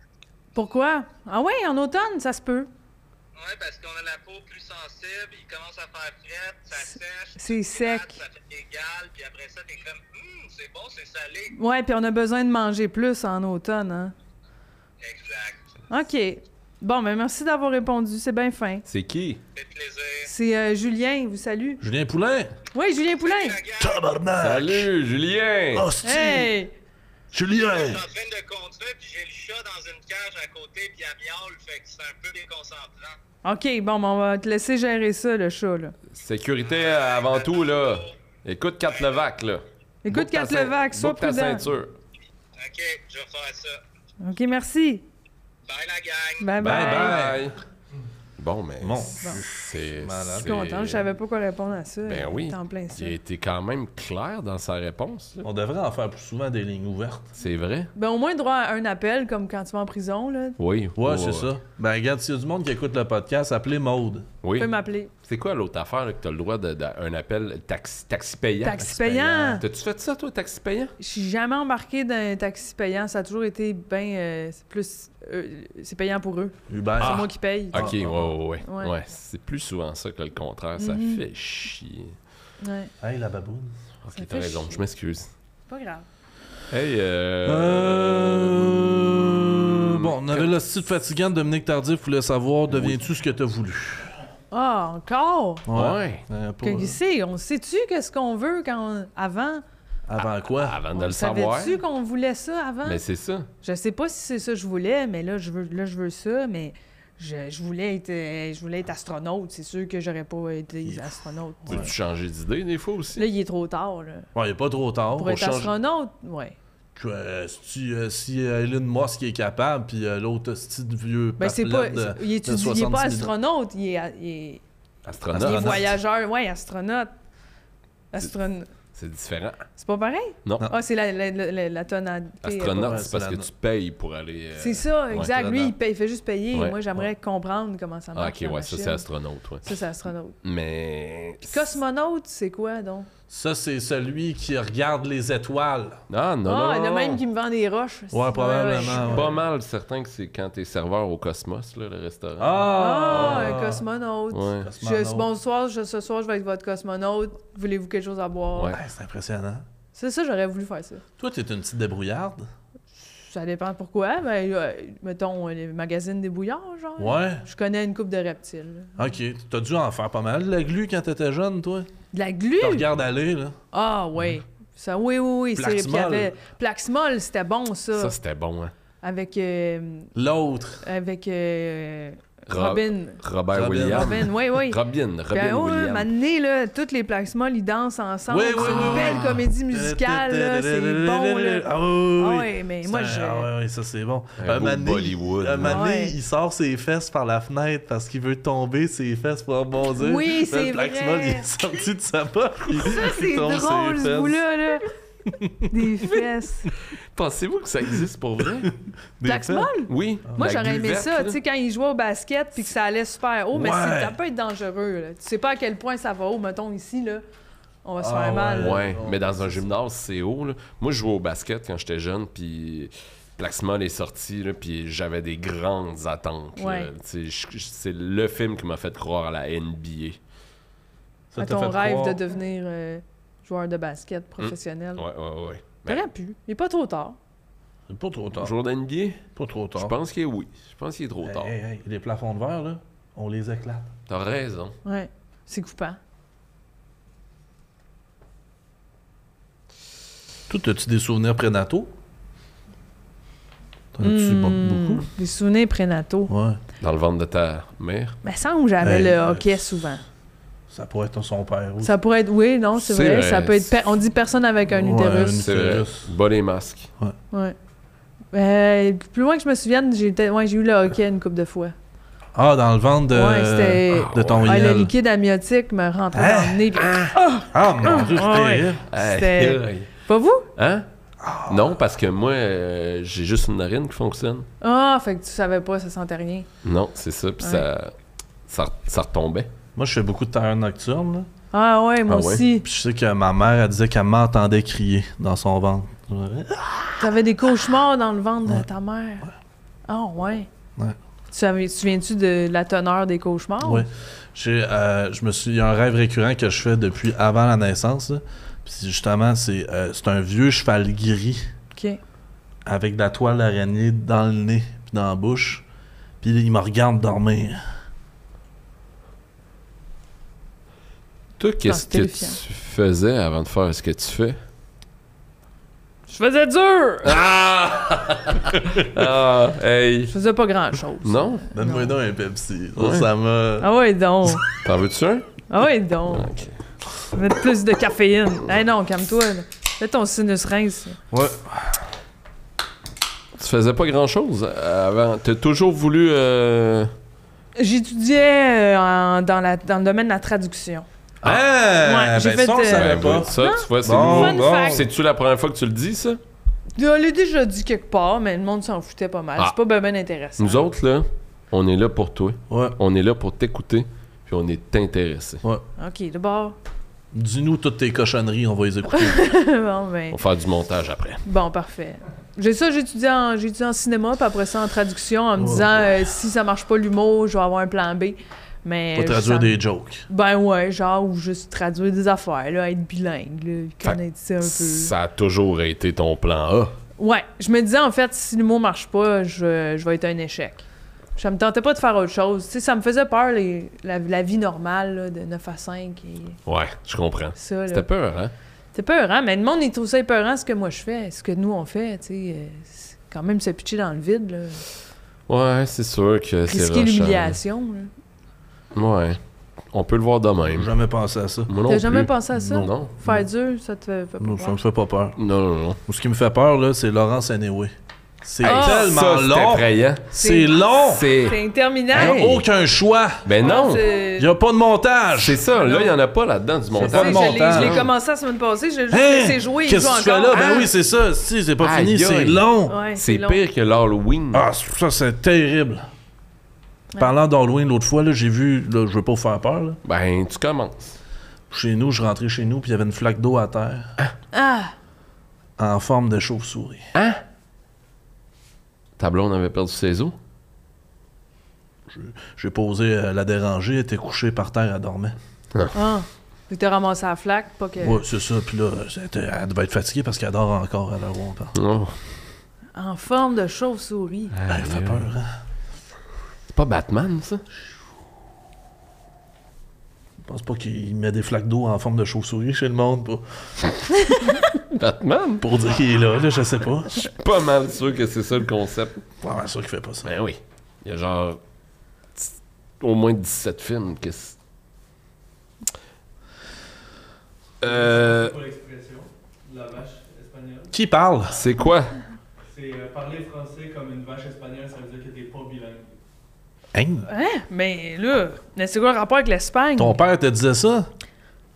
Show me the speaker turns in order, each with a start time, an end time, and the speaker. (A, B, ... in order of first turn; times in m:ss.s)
0:00.6-0:02.7 A
0:03.4-0:11.6 B
0:06.8-0:08.2 A
0:11.5-0:14.1 A
0:15.0-0:15.6 B
0:15.9-0:18.8 A
0:18.9-0:19.4 C
0:19.5-0:20.3 B
0:20.2-0:21.8 A
0:21.8-0:22.5 D
0:22.7-0:23.6 A
0:23.2-0:24.0 B
0:23.8-0:24.9 D
0:24.4-0:25.9 C
0:25.7-0:26.5 D
0:26.0-0:26.7 A
0:27.3-0:28.0 D
0:27.5-0:33.2 B
0:33.4-0:36.0 A
0:36.1-0:41.9 C
0:36.6-0:38.2 B
0:40.0-0:41.6 A
0:42.6-0:43.8 B
0:44.2-0:45.0 A
0:45.7-0:46.5 B
0:46.4-0:47.2 A
0:46.6-0:47.5 D
0:46.6-0:47.6 C
0:48.4-0:51.0 C
0:48.8-0:50.6 D
0:50.4-0:53.2 A
0:52.0-0:55.5 C
0:55.4-0:57.3 D
0:57.4-0:57.9 C
0:58.0-1:00.6 A
1:00.6-1:01.5 C
1:01.0-1:04.3 D
1:04.4-1:04.7 C
1:04.6-1:05.1 A
1:05.2-1:10.9 C
1:08.6-1:09.6 A
1:11.0-1:17.9 A
1:16.7-1:18.3 D
1:17.0-1:22.2 C
1:18.6-1:18.9 A
1:20.8-1:21.2 A
1:22.6-1:22.9 A
1:23.0-1:23.7 D
1:24.0-1:25.3 C
1:24.1-1:24.8 A
1:25.7-1:26.0 A
1:26.7-1:30.5 C
1:27.4-1:34.2 D
1:32.7-1:33.0 C
1:34.5-1:35.7 A
1:35.7-1:37.0 D
1:35.7-1:36.3 C
1:36.6-1:39.6 A
1:40.1-1:40.8 D
1:40.5-1:41.8 C
1:40.9-1:43.0 A
1:42.8-1:43.5 C
1:43.6-1:51.9 A
1:50.8-1:51.1 D
1:51.6-1:51.9 D
1:51.7-1:53.2 C
1:53.2-1:54.3 A
1:54.4-1:55.4 D
1:55.2-1:56.6 A
1:55.2-1:55.7 C
1:57.0-2:03.3 D
2:01.4-2:04.6 A
2:05.0-2:05.9 C
2:05.3-2:05.9 D
2:05.3-2:07.1 A
2:08.1-2:08.7 A
2:08.9-2:09.7 C
2:09.8-2:13.0 A
2:12.4-2:15.5 C
2:12.8-2:13.5 D
2:14.6-2:19.1 A
2:15.3-2:15.7 D
2:18.2-2:19.7 C
2:19.6-2:20.4 A
2:20.4-2:21.7 C
2:21.5-2:23.1 A
2:23.3-2:26.0 D
2:26.1-2:27.2 C
2:26.4-2:29.4 A
2:28.1-2:29.3 D
2:28.9-2:33.6 C
2:32.4-2:33.8 D
2:32.8-2:38.8 A
2:34.3-2:34.7 C
2:34.6-2:35.3 D
2:38.7-2:39.7 D
2:39.9-2:41.0 A
2:41.2-2:42.5 D
2:43.2-2:49.0 A
2:47.0-2:47.4 D
2:49.0-2:51.9 D
2:52.1-2:52.9 A
2:52.6-2:53.6 D
2:53.7-2:58.2 A
2:55.6-2:56.4 D
2:58.0-2:58.7 C
2:59.0-3:00.1 A
3:00.2-3:00.8 D
3:00.8-3:03.2 A
3:02.5-3:06.1 C
3:03.5-3:04.3 D
3:03.9-3:04.8 A
3:05.3-3:13.5 A
3:08.3-3:24.4 D
3:08.6-3:09.3 C
3:14.4-3:15.8 C
3:15.6-3:16.2 A
3:20.0-3:21.5 A
3:22.7-3:24.9 A
3:25.3-3:25.8 D
3:25.7-3:26.7 A
3:26.9-3:28.7 C
3:28.7-3:29.7 D
3:29.2-3:37.2 A
3:29.9-3:31.4 C
3:33.5-3:34.2 D
3:37.8-3:38.8 A
3:38.0-3:39.6 D
3:38.6-3:50.2 C
3:46.6-3:46.9 A
3:51.3-3:52.2 D
3:51.4-3:55.0 A
3:54.4-3:56.0 C
3:55.8-3:57.2 A
3:57.9-3:58.5 D
3:58.4-4:01.5 C
3:59.4-4:00.0 D
4:01.2-4:03.9 D
4:04.1-4:04.8 C
4:04.8-4:06.0 A
4:10.5-4:11.9 D
4:13.9-4:15.1 D
4:14.0-4:16.3 A
4:16.3-4:16.6 D
4:16.8-4:18.2 C
4:18.2-4:20.0 A
4:18.8-4:19.6 D
4:20.7-4:22.0 D
4:21.8-4:25.4 A
4:22.8-4:23.8 C
4:24.7-4:26.1 D
4:25.4-4:26.9 C
4:28.3-4:31.7 A
4:32.4-4:34.9 D
4:33.1-4:40.5 A
4:33.9-4:34.7 C
4:36.1-4:36.7 D
4:36.8-4:37.2 C
4:37.5-4:38.8 D
4:38.9-4:39.9 C
4:40.6-4:40.9 C
4:41.2-4:41.8 D
4:41.5-4:44.5 C
4:44.6-4:46.5 A
4:46.6-4:47.9 C
4:47.4-4:47.7 A
4:48.5-4:49.5 C
4:49.8-4:51.3 D
4:51.5-4:52.7 A
4:52.1-4:52.4 C
4:52.6-4:57.1 D
4:57.0-4:59.3 A
4:59.9-5:00.5 A
5:01.3-5:03.9 A
5:03.6-5:11.5 D
5:11.7-5:12.0 A
5:12.7-5:15.6 D
5:16.2-5:17.6 D
5:21.4-5:24.4 C
5:21.7-5:22.4 A
5:26.1-5:27.2 A
5:27.0-5:30.1 C
5:30.1-5:31.9 A
5:31.0-5:31.5 C
5:31.6-5:33.7 D
5:32.8-5:33.1 C
5:33.6-5:34.5 A
5:34.6-5:35.4 C
5:35.5-5:36.3 A
5:36.1-5:36.5 C
5:37.1-5:41.0 A
5:41.1-5:41.8 D
5:43.4-5:46.9 C
5:47.6-5:50.9 A
5:51.2-5:54.9 D
5:51.8-5:54.9 A
5:52.7-5:56.2 C
5:56.8-6:00.7 A
6:00.4-6:05.4 C
6:02.5-6:02.8 D
6:05.8-6:06.6 A
6:07.1-6:09.2 D
6:08.9-6:10.2 A
6:10.1-6:11.2 C
6:11.2-6:24.9 A
6:15.4-6:15.9 D
6:19.0-6:20.0 D
6:23.8-6:26.8 C
6:27.0-6:36.4 A
6:36.5-6:38.3 C
6:37.4-6:37.9 A
6:38.7-6:44.6 A
6:45.3-6:47.4 C
6:46.5-6:47.9 A
6:48.8-6:49.2 C
6:49.7-6:50.7 C
6:50.5-6:51.5 D
6:51.5-6:52.9 C
6:51.7-6:54.6 A
6:52.3-6:53.3 D
6:54.2-6:55.2 D
6:55.2-6:55.8 C
6:55.9-7:01.1 D
6:58.4-6:58.9 A
6:58.4-7:00.1 C
7:00.2-7:02.3 A
7:00.8-7:01.4 C
7:01.9-7:02.4 C
7:01.9-7:03.2 D
7:03.2-7:03.8 C
7:03.4-7:04.3 A
7:04.2-7:05.4 D
7:05.2-7:07.9 C
7:05.6-7:06.0 A
7:06.8-7:10.7 A
7:06.8-7:07.8 D
7:08.9-7:12.8 D
7:10.3-7:10.7 C
7:11.6-7:14.5 C
7:12.7-7:13.4 A
7:14.3-7:15.9 D
7:17.0-7:19.8 D
7:19.8-7:21.0 C
7:21.5-7:23.9 D
7:24.3-7:24.7 A
7:25.6-7:26.8 D
7:26.9-7:27.2 C
7:29.0-7:30.2 C
7:31.9-7:35.2 D
7:35.7-7:38.0 A
7:37.8-7:41.6 D
7:41.5-7:42.0 C
7:42.7-7:44.3 A
7:44.3-7:45.1 C
7:44.5-7:45.3 D
7:46.5-7:47.4 C
7:50.2-7:53.7 D
7:54.7-7:55.5 C
7:55.4-7:57.1 D
7:57.0-7:59.0 C
7:59.2-8:00.1 D
8:00.0-8:01.4 C
8:02.2-8:04.4 C
8:07.6-8:08.4 C
8:07.6-8:10.7 E
8:10.7-8:11.4 D
8:11.3-8:12.0 C
8:12.5-8:15.9 E
8:16.7-8:17.1 D
8:17.1-8:20.0 A
8:19.8-8:20.9 D